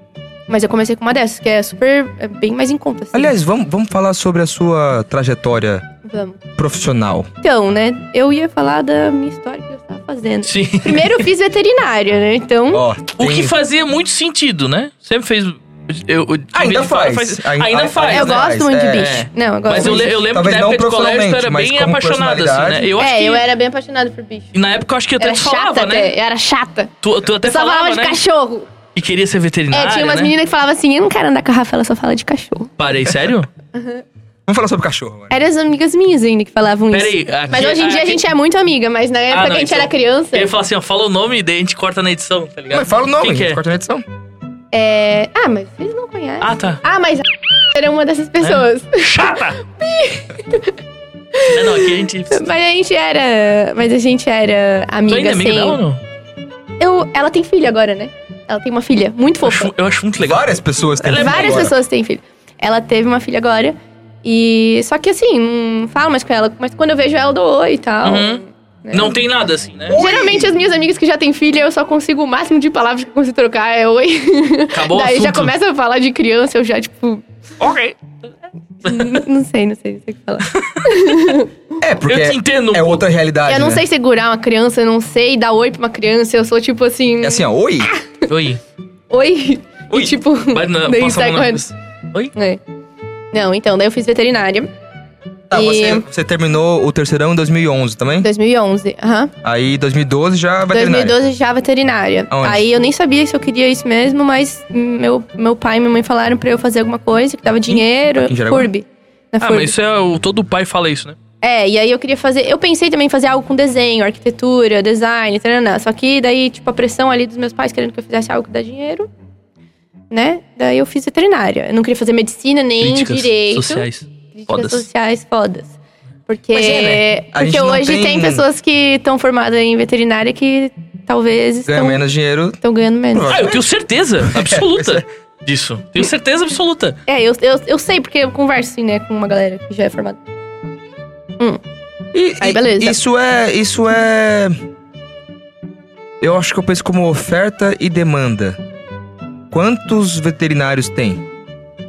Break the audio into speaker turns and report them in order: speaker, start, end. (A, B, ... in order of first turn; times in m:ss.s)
0:00.5-0:03.4 A
0:03.1-0:05.8 B
0:06.0-0:06.4 A
0:06.6-0:07.3 B
0:07.4-0:12.8 A
0:10.4-0:11.3 C
0:12.7-0:13.5 B
0:13.2-0:23.5 C
0:16.5-0:22.9 B
0:18.1-0:20.2 A
0:23.0-0:24.5 A
0:24.5-0:26.2 C
0:25.2-0:28.7 A
0:27.0-0:28.2 C
0:29.0-0:30.3 C
0:29.7-0:32.7 A
0:32.8-0:33.5 C
0:33.7-0:34.0 A
0:34.5-0:35.3 B
0:35.3-0:40.5 A
0:36.9-0:38.2 C
0:39.3-0:43.6 C
0:42.7-0:44.0 B
0:44.7-0:50.8 A
0:46.4-0:46.8 C
0:48.4-0:49.6 C
0:51.3-0:55.8 A
0:51.5-0:52.5 C
0:55.1-0:56.0 C
0:56.8-0:59.7 A
0:59.4-1:00.4 C
1:00.2-1:01.7 B
1:01.0-1:01.7 C
1:01.2-1:09.2 A
1:08.0-1:10.0 C
1:09.9-1:10.6 B
1:09.9-1:17.2 A
1:14.7-1:15.5 C
1:17.6-1:18.0 C
1:18.8-1:21.5 A
1:18.9-1:19.2 C
1:21.8-1:23.8 B
1:22.0-1:23.0 C
1:23.5-1:28.1 A
1:27.2-1:27.9 B
1:28.3-1:28.6 C
1:29.1-1:31.7 A
1:29.9-1:32.3 C
1:32.3-1:32.6 A
1:33.3-1:34.7 A
1:35.5-1:38.3 B
1:35.5-1:36.0 A
1:38.2-1:39.3 A
1:39.4-1:41.2 B
1:40.7-1:49.7 A
1:42.3-1:42.7 B
1:47.6-1:48.7 B
1:49.4-1:51.2 C
1:51.4-1:59.1 A
2:00.1-2:05.8 A
2:02.8-2:04.9 C
2:06.3-2:12.0 A
2:06.5-2:07.0 C
2:07.3-2:08.4 B
2:11.7-2:12.6 B
2:12.6-2:13.4 A
2:13.1-2:13.6 B
2:13.3-2:17.0 C
2:14.2-2:15.0 B
2:17.1-2:20.2 A
2:22.1-2:24.6 B
2:22.4-2:23.0 A
2:26.2-2:28.6 B
2:29.5-2:31.2 B